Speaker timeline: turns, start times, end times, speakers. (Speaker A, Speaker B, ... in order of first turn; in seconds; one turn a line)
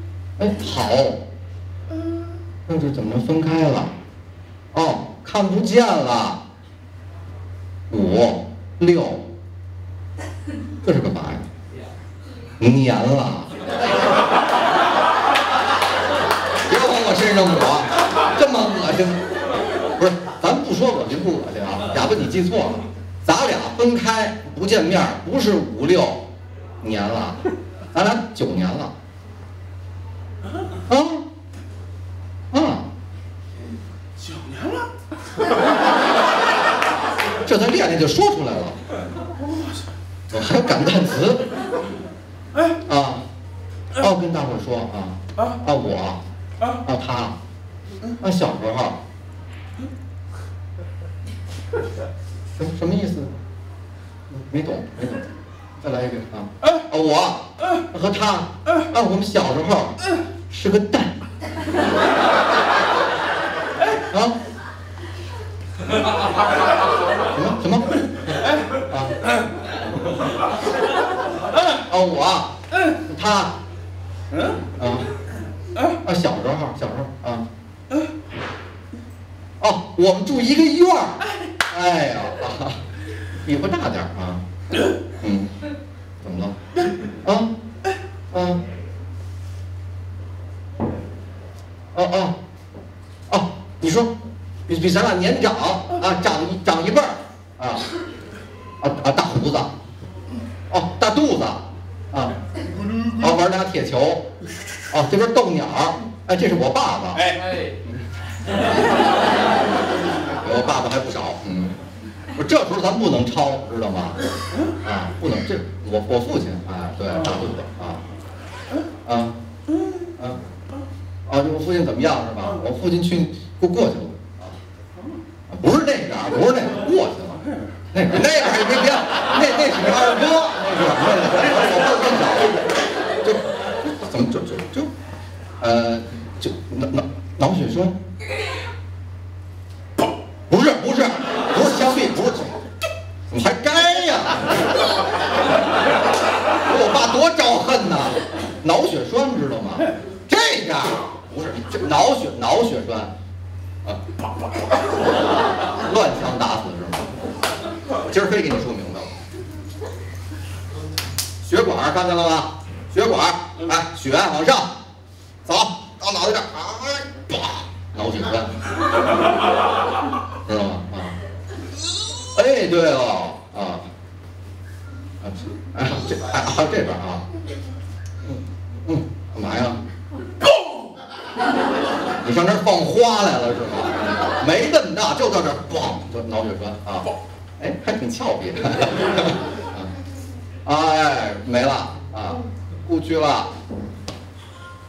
Speaker A: 0.4-1.2
Speaker A: 2.7-3.9
Speaker A: 4.7-6.4
Speaker A: 7.9-9.3
Speaker A: 10.8-11.5
Speaker A: 12.6-13.6
Speaker A: 16.6-19.3
Speaker A: 20.0-26.3
Speaker A: 26.8-28.9
Speaker A: 30.9-31.3
Speaker A: 32.5-32.9
Speaker B: 34.2-34.9
Speaker A: 37.4-38.8
Speaker B: 39.4-39.8
Speaker A: 40.3-41.5
Speaker A: 42.9-43.2
Speaker A: 44.0-46.2
Speaker A: 46.8-47.4
Speaker A: 48.2-49.0
Speaker A: 52.6-53.3
Speaker A: 54.3-55.3
Speaker A: 55.8-60.0
Speaker A: 60.5-61.2
Speaker A: 64.1-64.4
Speaker A: 67.3-67.9
Speaker B: 68.3-68.7
Speaker A: 68.9-69.2
Speaker B: 71.5-71.8
Speaker A: 71.9-72.5
Speaker A: 73.0-73.5
Speaker B: 74.3-74.6
Speaker A: 74.8-75.1
Speaker A: 76.0-77.5
Speaker A: 79.6-82.8
Speaker A: 83.5-84.4
Speaker A: 85.2-85.5
Speaker A: 86.2-86.5
Speaker A: 87.2-87.5
Speaker A: 88.3-88.6
Speaker A: 91.9-92.4
Speaker A: 93.3-94.1
Speaker A: 94.7-97.8
Speaker A: 98.8-99.7
Speaker A: 100.7-102.4
Speaker A: 103.2-104.3
Speaker A: 104.9-107.3
Speaker B: 107.1-107.5
Speaker A: 110.4-111.8
Speaker A: 112.4-114.2
Speaker A: 114.8-118.0
Speaker A: 119.0-119.4
Speaker B: 119.7-120.0
Speaker A: 121.3-124.5
Speaker A: 125.5-127.4
Speaker A: 127.9-134.9
Speaker A: 135.6-138.0
Speaker A: 140.5-142.6
Speaker A: 143.3-144.8
Speaker A: 146.6-153.1
Speaker A: 155.6-157.1
Speaker A: 158.1-159.1
Speaker A: 161.4-164.7
Speaker A: 165.5-168.5
Speaker A: 170.5-171.2
Speaker A: 172.3-173.8
Speaker A: 175.2-177.2
Speaker A: 178.2-179.8
Speaker A: 182.2-187.1
Speaker A: 187.6-189.9
Speaker A: 190.7-193.5